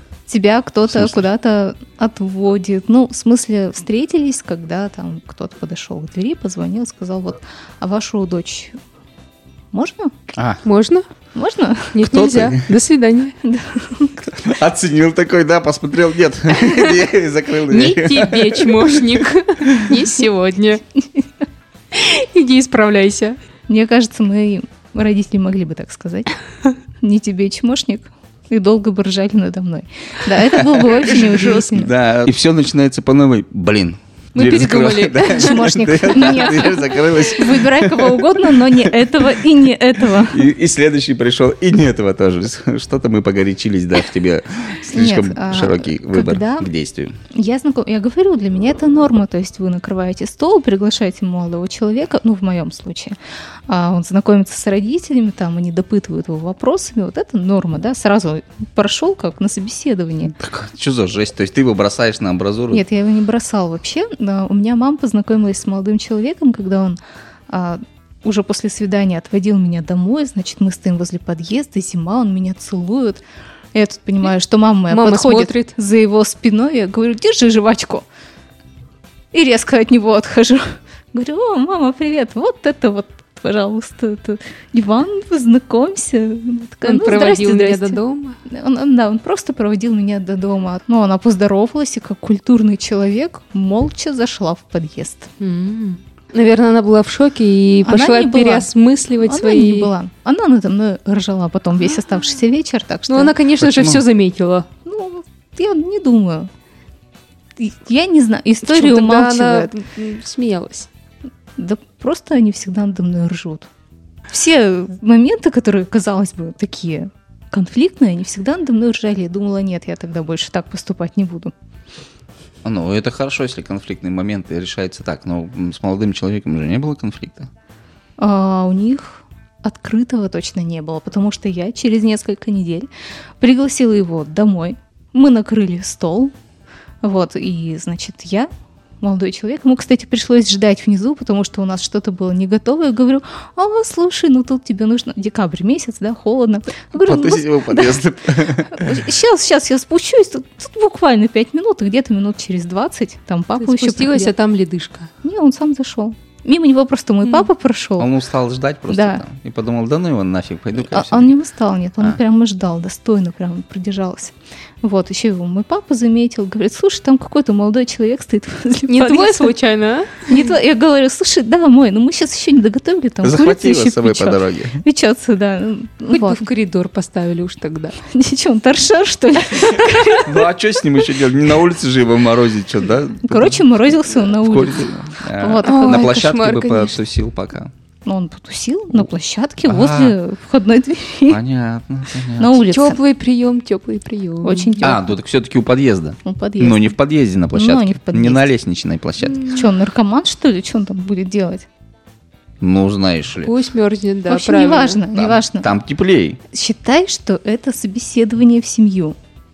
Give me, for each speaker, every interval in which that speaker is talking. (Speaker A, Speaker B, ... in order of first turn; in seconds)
Speaker A: 0.3-8.8, 9.7-10.2, 11.3-12.0, 13.4-14.3, 23.7-26.3, 27.0-31.9, 35.3-40.5, 44.9-46.7, 47.3-60.3, 62.7-67.0, 67.5-73.2, 73.7-78.0, 79.3-95.3, 97.8-98.7, 99.2-103.3, 104.8-106.5, 107.6-109.7, 111.6-113.7, 114.3-121.5, 128.2-132.9, 133.4-136.3, 137.0-138.5, 139.0-148.0, 148.6-154.3, 155.2-158.1, 158.9-159.2, 160.8-169.5, 170.3-176.5, 178.0-180.5, 183.2-186.3, 188.0-191.4, 192.4-193.0, 194.4-195.1, 196.2-196.9, 197.5-198.5, 199.4-201.7, 204.3-205.7, 206.5-209.2
Speaker B: 0.9-1.2, 10.3-10.6, 12.0-12.7, 14.2-19.9, 30.6-38.9, 40.1-47.1, 60.3-62.8, 103.6-104.0, 122.6-127.5, 147.0-149.0, 158.0-161.3, 173.2-174.8, 180.1-187.7, 189.6-190.2, 191.3-192.6, 194.8-199.5, 202.6-203.5, 205.1-206.4
Speaker C: 10.6-11.0, 11.9-13.3, 16.6-17.0, 17.7-20.8, 21.9-23.4, 34.3-35.6, 74.9-75.7, 86.8-88.4, 95.4-99.9, 103.1-104.7, 108.6-110.9, 153.6-155.1, 168.9-170.4, 176.1-178.0, 185.6-187.0, 192.7-194.8, 203.4-205.0